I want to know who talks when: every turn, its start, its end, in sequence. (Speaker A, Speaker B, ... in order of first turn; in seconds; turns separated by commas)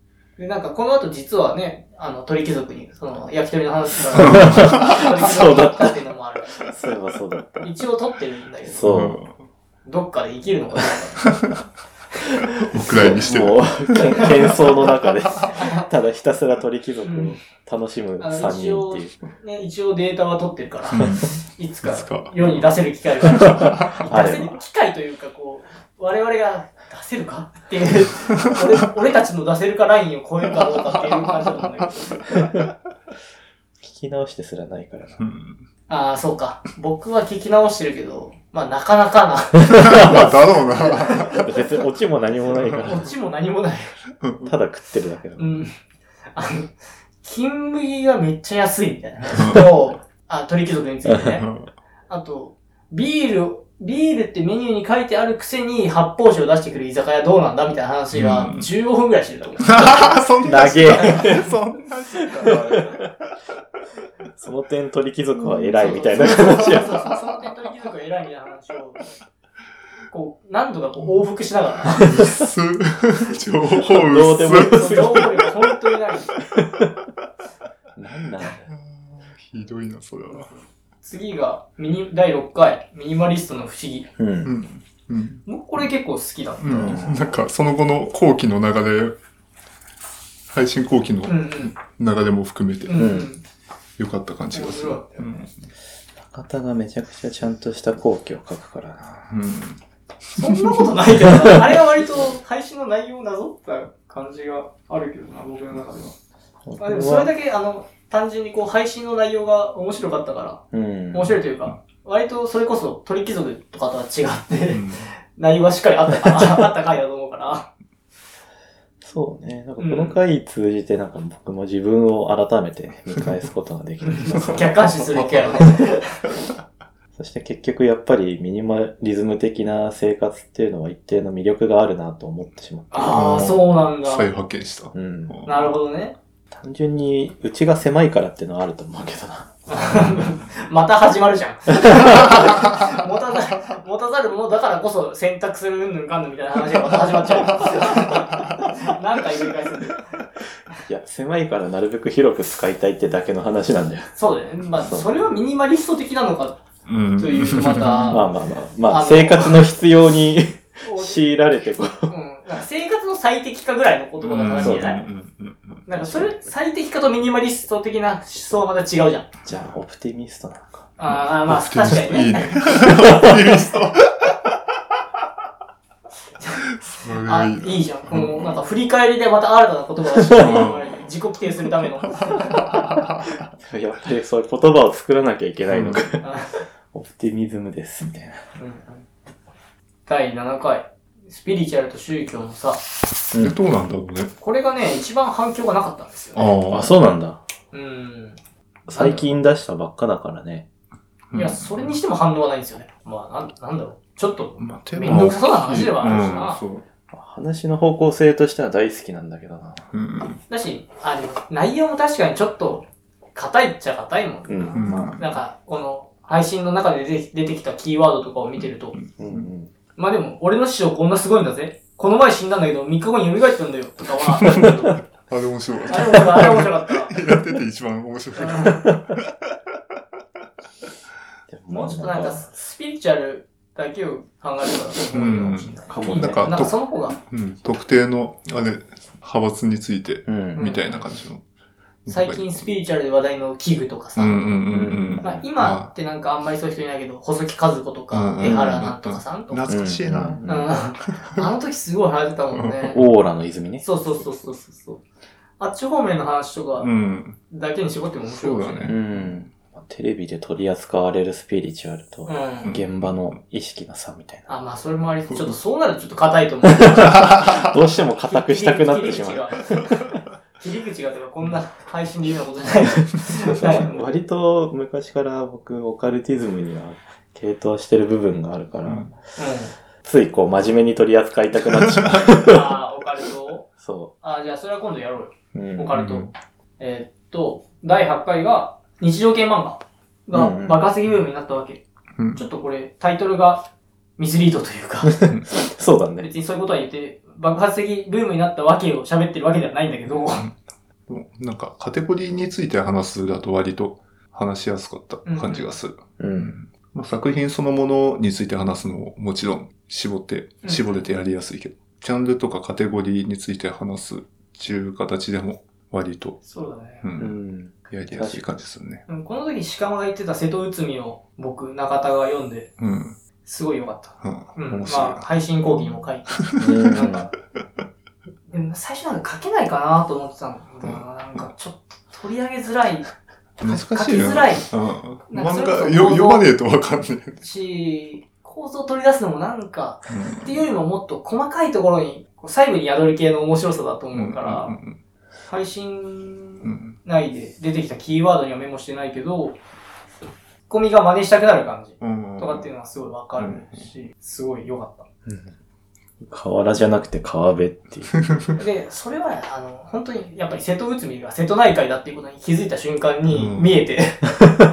Speaker A: 0.4-6.6, Speaker B: 4.1-4.7, Speaker C: 4.1-6.0, Speaker C: 6.6-7.8, Speaker A: 7.6-8.8, Speaker C: 8.6-9.2, Speaker B: 8.8-9.4, Speaker A: 9.8-11.2, Speaker B: 11.2-11.6, Speaker B: 12.5-14.5, Speaker C: 12.7-19.2, Speaker A: 15.5-15.9, Speaker A: 17.0-17.3, Speaker A: 18.2-32.4, Speaker B: 20.9-22.6, Speaker B: 23.5-24.2, Speaker C: 24.1-24.6, Speaker C: 33.8-35.2, Speaker B: 35.2-35.6, Speaker A: 35.9-41.3, Speaker B: 39.7-41.4, Speaker C: 40.0-40.3, Speaker C: 41.3-43.1, Speaker A: 42.8-43.9, Speaker B: 44.2-44.5, Speaker C: 44.4-45.6, Speaker A: 45.4-45.7, Speaker A: 46.3-51.4, Speaker B: 49.3-49.7, Speaker C: 51.0-51.4, Speaker B: 51.4-51.7, Speaker A: 52.1-60.2, Speaker B: 58.1-58.7, Speaker B: 59.6-63.4, Speaker C: 60.4-61.5, Speaker A: 60.8-61.5, Speaker C: 62.4-62.7, Speaker C: 64.4-67.2, Speaker A: 65.7-69.2, Speaker B: 66.1-66.5, Speaker A: 70.1-72.2, Speaker B: 72.0-75.3, Speaker C: 73.8-75.4, Speaker A: 74.6-76.4, Speaker C: 76.5-76.9, Speaker C: 78.0-78.6, Speaker B: 78.5-80.5, Speaker A: 81.0-84.1, Speaker C: 84.2-84.5, Speaker B: 84.4-85.5, Speaker A: 85.5-87.0, Speaker B: 86.6-89.2, Speaker C: 86.7-87.2, Speaker B: 90.5-93.2, Speaker A: 91.2-91.7, Speaker A: 92.8-93.4, Speaker C: 92.9-93.3, Speaker B: 94.0-95.5, Speaker A: 94.5-95.4, Speaker C: 96.2-99.3, Speaker B: 99.3-99.8, Speaker B: 100.3-100.9, Speaker A: 100.4-106.2, Speaker C: 106.7-107.3, Speaker A: 106.8-117.7, Speaker C: 110.7-111.3, Speaker B: 114.7-115.1, Speaker C: 119.0-125.7, Speaker A: 119.8-120.2, Speaker A: 124.0-126.2, Speaker C: 127.1-133.3, Speaker A: 132.9-134.3, Speaker B: 133.1-135.7, Speaker C: 134.9-135.5, Speaker A: 135.4-136.2, Speaker C: 136.5-139.5, Speaker A: 139.7-150.3, Speaker C: 150.9-154.2, Speaker A: 154.1-156.6, Speaker C: 154.7-155.2, Speaker B: 156.8-158.2, Speaker A: 157.2-158.3, Speaker C: 158.1-162.1, Speaker A: 158.8-159.6, Speaker A: 160.8-161.2, Speaker A: 162.1-165.0, Speaker B: 164.2-165.9, Speaker C: 164.6-164.9, Speaker A: 165.8-169.3, Speaker C: 169.4-170.9, Speaker A: 171.0-172.6, Speaker B: 171.4-174.5, Speaker B: 176.8-178.6, Speaker A: 177.2-182.8, Speaker C: 180.3-180.5, Speaker B: 180.3-181.0, Speaker B: 182.2-183.4, Speaker C: 183.5-186.2, Speaker B: 185.7-186.0, Speaker A: 186.2-186.6, Speaker C: 186.9-188.4, Speaker A: 188.6-189.1, Speaker A: 190.1-192.8, Speaker C: 193.3-193.6, Speaker B: 193.4-194.3, Speaker A: 194.4-196.6, Speaker B: 196.3-197.0, Speaker C: 196.7-197.4, Speaker A: 197.7-198.4, Speaker C: 198.9-200.7, Speaker A: 198.9-199.3, Speaker B: 201.3-201.9, Speaker A: 201.3-206.6, Speaker B: 204.6-206.8, Speaker C: 205.1-205.3, Speaker C: 207.1-209.8, Speaker B: 209.9-210.4, Speaker A: 210.5-218.9, Speaker C: 214.5-215.2, Speaker B: 214.7-215.2, Speaker B: 218.6-219.5, Speaker C: 219.2-219.7, Speaker A: 219.9-225.0, Speaker B: 224.4-224.7, Speaker B: 225.3-229.5, Speaker A: 225.9-227.1, Speaker A: 228.4-228.9, Speaker C: 231.5-232.5, Speaker A: 231.7-237.2, Speaker B: 235.1-241.4, Speaker C: 235.9-236.5, Speaker C: 240.2-240.8, Speaker A: 240.5-240.8, Speaker B: 242.1-242.7, Speaker A: 242.1-244.5, Speaker B: 244.2-245.9, Speaker C: 244.7-245.4, Speaker A: 245.2-249.7, Speaker B: 248.1-250.4, Speaker C: 248.4-248.8, Speaker C: 249.7-250.7, Speaker A: 250.4-253.0, Speaker B: 251.1-251.4, Speaker B: 252.5-253.0, Speaker C: 252.9-253.8, Speaker A: 253.8-255.0, Speaker A: 255.6-256.9, Speaker B: 256.8-257.4, Speaker A: 257.5-258.9, Speaker B: 258.3-259.4, Speaker C: 258.8-264.5, Speaker A: 262.2-262.7, Speaker B: 262.6-263.3, Speaker A: 264.5-267.4, Speaker B: 265.3-265.5, Speaker C: 266.8-270.1, Speaker A: 268.2-269.9, Speaker A: 270.6-274.1, Speaker C: 273.5-279.1, Speaker B: 278.8-279.1, Speaker A: 279.4-279.7, Speaker C: 280.0-282.8, Speaker A: 282.4-283.7, Speaker C: 283.8-284.1, Speaker A: 284.2-291.8, Speaker C: 285.5-286.0, Speaker B: 285.9-286.3, Speaker C: 290.3-290.9, Speaker B: 292.2-292.4, Speaker A: 292.3-295.2, Speaker C: 295.2-296.3, Speaker A: 296.2-300.5, Speaker B: 301.1-316.4, Speaker A: 305.2-305.7, Speaker C: 306.2-306.6, Speaker A: 310.6-311.0, Speaker A: 316.4-317.1, Speaker B: 317.0-317.4, Speaker C: 317.2-318.5, Speaker B: 317.9-319.0, Speaker A: 319.1-322.7, Speaker B: 322.8-323.2, Speaker A: 323.4-327.3, Speaker B: 324.2-325.2, Speaker B: 326.4-327.1, Speaker C: 326.6-327.3, Speaker A: 328.5-334.7, Speaker B: 333.6-337.4, Speaker A: 335.3-336.5, Speaker A: 337.4-344.8, Speaker B: 340.1-340.6, Speaker B: 344.1-345.0, Speaker A: 345.4-349.6, Speaker B: 346.6-347.0, Speaker A: 350.7-355.1, Speaker B: 352.0-352.7, Speaker B: 353.4-353.9, Speaker C: 355.2-355.5, Speaker C: 356.2-358.3, Speaker A: 358.6-364.6, Speaker B: 363.3-363.9